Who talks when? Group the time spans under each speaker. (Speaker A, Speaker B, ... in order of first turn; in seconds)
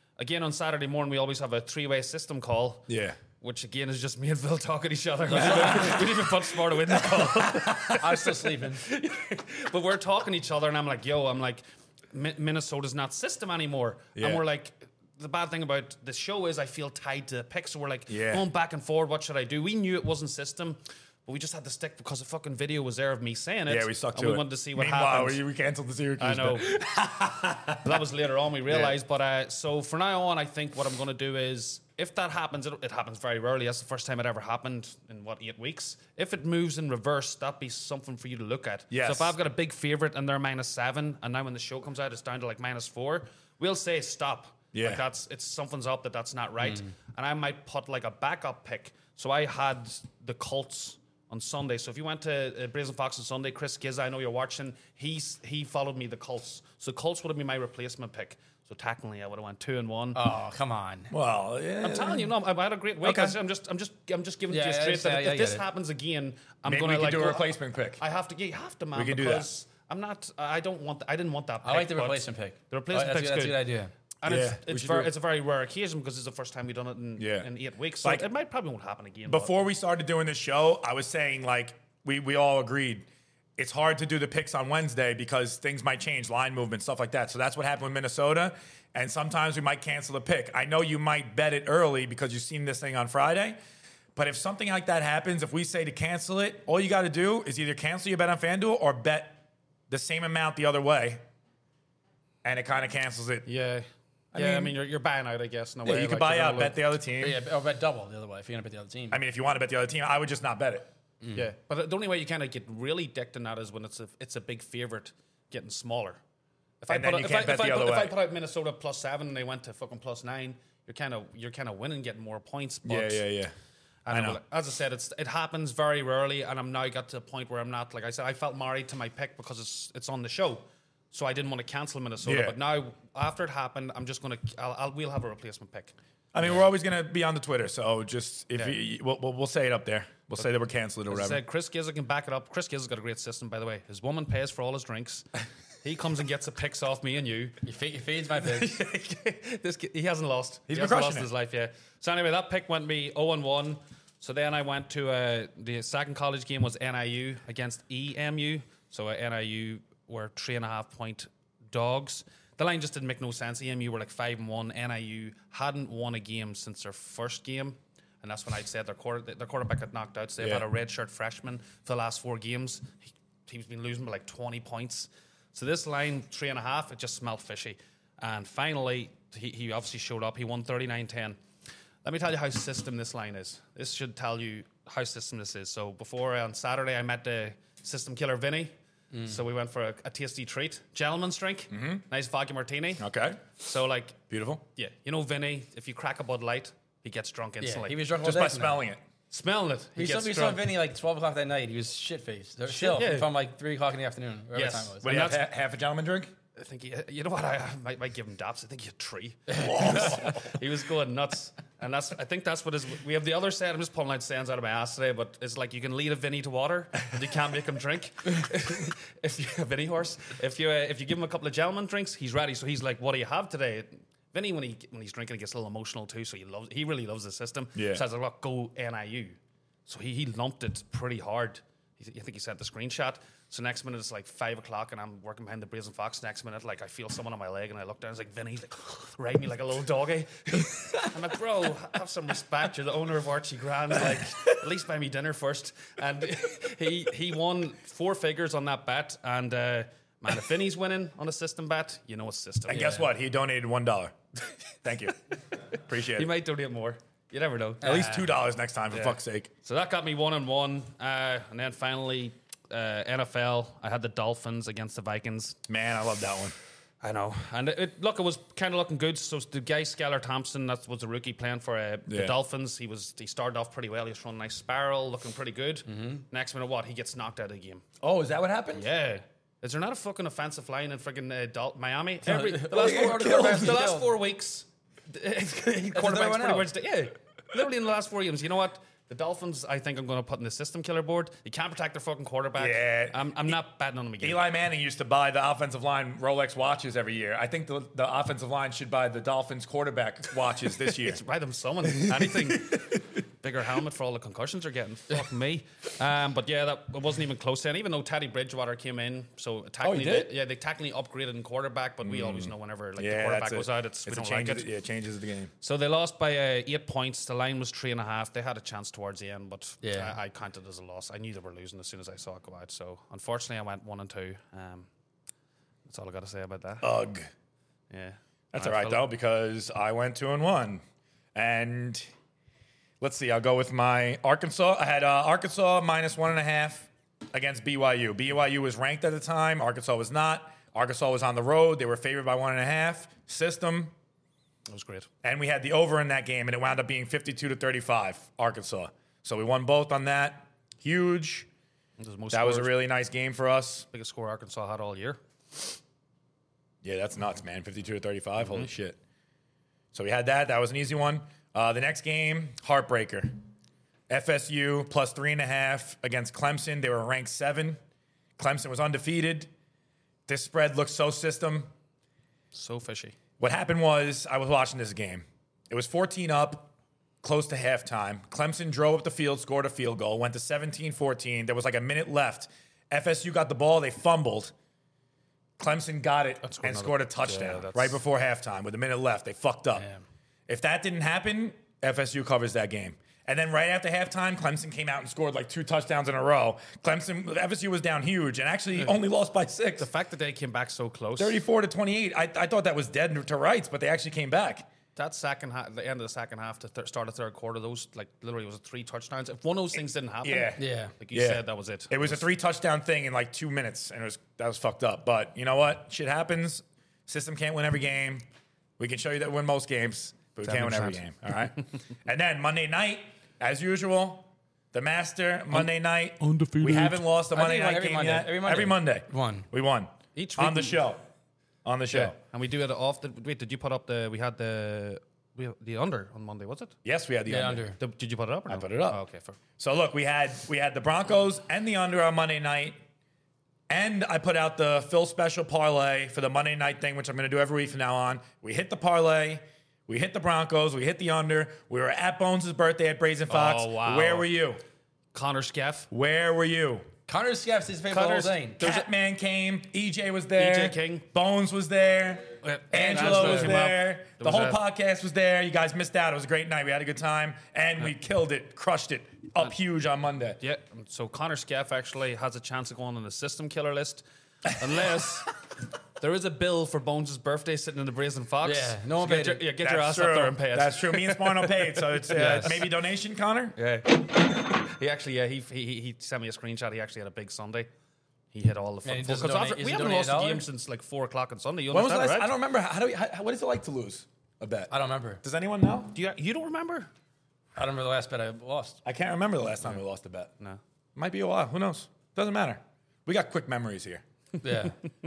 Speaker A: 0.2-2.9, 3.4-25.4, 26.2-26.7, 27.8-60.2, 61.8-73.6, 74.2-79.5, 103.5-106.8, 111.3-116.2, 116.8-123.2, 124.1-136.6, 141.1-147.6, 148.4-181.4, 182.0-188.7, 189.3-193.1, 193.6-194.2, 194.8-198.0, 199.3-200.7, 202.7-203.3, 204.5-205.4, 206.6-253.1, 256.1-258.3, 258.9-265.6, 267.0-277.9, 278.7-294.4, 300.9-314.7, 315.6-324.9, 325.9-326.9, 327.9-329.1, 344.7-345.1, 352.0-352.7, 353.9-355.8, 358.4-358.7, 372.5-373.1, 386.4-388.0, 399.8-401.4, 405.0-412.3, 420.4-421.0, 426.3-426.9, 430.1-430.8, 431.9-436.8, 437.8-439.4, 453.3-454.3, 455.1-455.9, 457.9-458.9, 460.4-461.1, 462.4-464.6, 470.4-475.4, 476.0-482.7, 483.6-487.7, 488.3-492.3, 495.9-496.9
Speaker B: 2.9-3.2, 5.3-6.2, 7.0-8.0, 14.2-14.4, 18.1-18.5, 23.7-28.0, 28.7-28.9, 38.9-39.4, 44.7-45.0, 61.1-62.3, 63.0-63.4, 66.7-68.0, 69.0-69.5, 74.3-75.1, 77.2-77.5, 78.0-78.3, 79.3-83.1, 83.6-93.6, 94.2-101.2, 102.4-103.5, 104.3-104.7, 105.9-107.4, 109.1-110.9, 116.9-118.2, 122.9-123.5, 124.1-124.4, 132.2-132.6, 136.3-141.4, 150.7-151.3, 170.4-170.7, 191.7-192.0, 193.0-193.4, 194.3-194.6, 198.2-199.0, 205.0-206.3, 209.6-210.4, 227.8-228.0, 252.7-254.2, 254.7-255.2, 255.9-256.3, 257.8-259.5, 265.7-266.6, 272.1-272.3, 278.0-278.9, 282.7-283.9, 285.9-286.6, 292.6-293.6, 294.2-301.2, 302.0-303.0, 309.8-310.3, 312.0-315.5, 326.8-327.3, 328.5-330.8, 331.4-332.1, 333.0-343.9, 345.2-351.5, 352.3-353.9, 356.8-359.0, 359.9-363.4, 364.1-367.8, 368.4-369.5, 370.3-371.7, 373.4-384.5, 385.6-389.9, 390.5-399.9, 401.2-404.7, 410.2-418.2, 418.8-431.0, 431.6-432.2, 436.9-437.6, 438.5-439.0, 439.6-442.8, 443.7-454.6, 455.9-456.9, 458.6-470.4, 479.6-483.6, 491.7-496.0, 498.9-500.3, 501.0-504.0
Speaker C: 5.3-5.8, 7.9-8.8, 46.6-46.9, 60.1-61.1, 64.5-65.6, 71.6-73.9, 107.2-109.2, 147.6-148.8, 197.6-198.8, 200.0-205.4, 275.9-276.2, 282.2-284.1, 319.8-320.2, 389.8-390.0, 410.6-410.9, 427.3-429.5, 437.3-437.8, 457.1-458.7, 462.9-463.6, 478.4-479.5, 482.1-482.6, 488.9-490.4, 494.7-495.2, 497.6-498.8, 504.4-504.8